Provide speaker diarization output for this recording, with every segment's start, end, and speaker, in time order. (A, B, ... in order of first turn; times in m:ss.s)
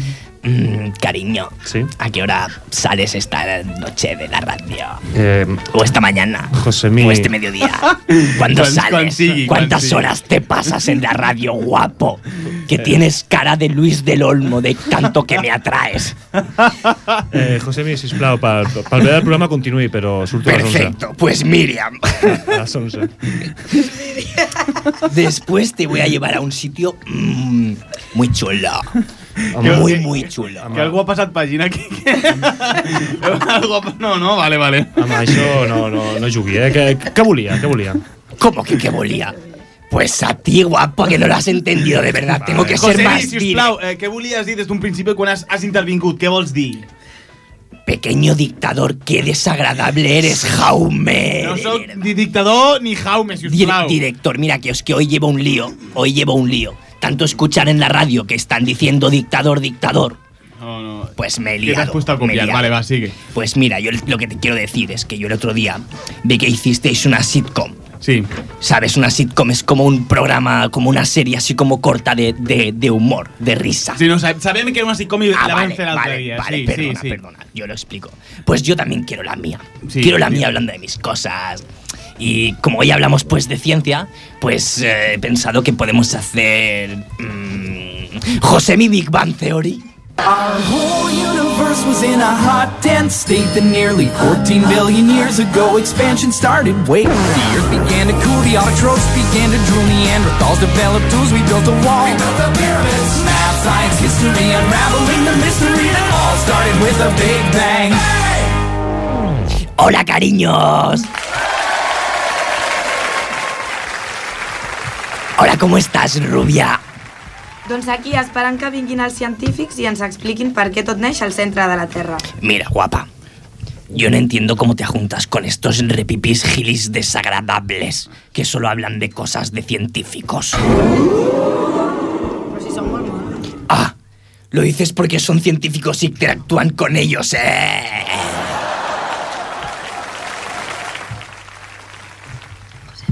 0:00.4-0:05.0 A
0:01.6-0:01.9 B
0:05.1-0:05.6 B
0:05.7-0:16.2 A
0:06.6-0:07.3 B
0:07.9-0:10.2 C
0:16.6-0:17.1 C
0:17.3-0:21.0 B
0:20.4-0:22.5 A
0:22.3-0:23.1 B
0:25.0-0:29.0 A
0:29.5-0:30.0 B
0:29.6-0:35.5 C
0:29.6-0:30.6 A
0:30.6-0:31.0 B
0:35.0-0:38.0 B
0:38.4-0:39.4 A
0:39.9-0:43.7 A
0:42.4-0:42.9 B
0:42.7-0:46.9 C
0:47.9-0:52.0 A
0:51.4-0:54.0 C
0:53.5-1:00.2 A
1:00.6-1:03.2 C
1:01.2-1:02.7 A
1:03.3-1:07.8 A
1:08.0-1:08.3 C
1:08.6-1:14.0 A
1:14.0-1:17.2 C
1:15.3-1:21.6 A
1:19.8-1:20.5 C
1:22.2-1:29.8 A
1:30.2-1:48.4 D
1:49.8-1:51.1 A
1:55.4-1:56.8 A
1:57.6-2:02.2 E
2:02.4-2:03.1 A
2:03.9-2:10.7 A
2:12.5-2:13.4 E
2:13.7-2:13.9 A
2:14.5-2:18.5 A